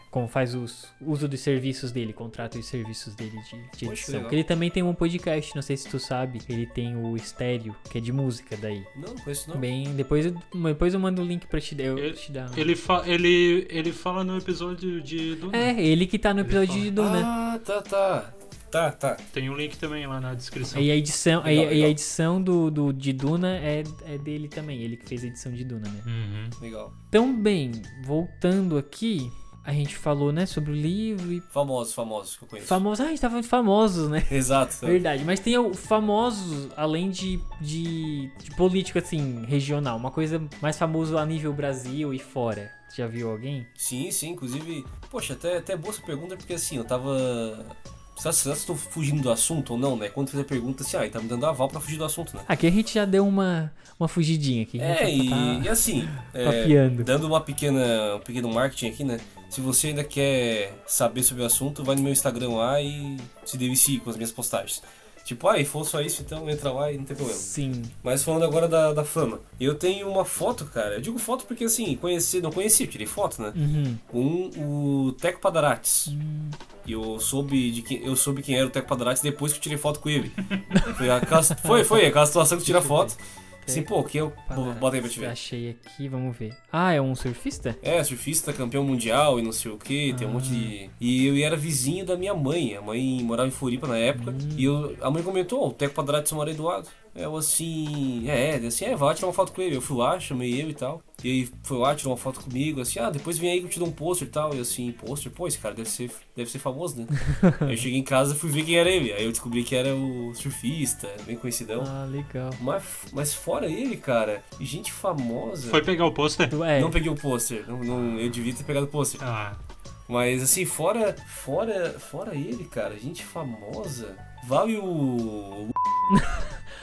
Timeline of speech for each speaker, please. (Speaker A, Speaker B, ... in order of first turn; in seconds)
Speaker A: 0.1-8.9, 9.5-12.7, 15.5-17.3, 20.7-26.1, 27.1-31.5, 32.6-43.7, 52.5-57.1, 67.2-67.9, 73.5-74.0, 76.1-76.6, 81.5-82.1, 82.6-83.9, 84.4-87.8, 90.1-90.7, 94.2-94.7, 107.4-107.7, 111.8-112.6, 116.5-117.0, 126.1-126.5
Speaker B: 3.8-4.4, 8.9-9.7, 17.0-19.2, 21.4-22.0, 26.6-26.9, 31.5-32.8, 34.3-35.0, 43.8-52.5, 54.8-67.5, 68.0-73.6, 74.1-76.1, 76.8-85.3, 87.8-111.9, 112.6-115.9, 116.7-119.2, 120.1-125.8
Speaker C: 11.9-15.7, 16.4-16.9, 19.3-20.9, 26.1-26.6, 115.7-116.6, 119.2-119.6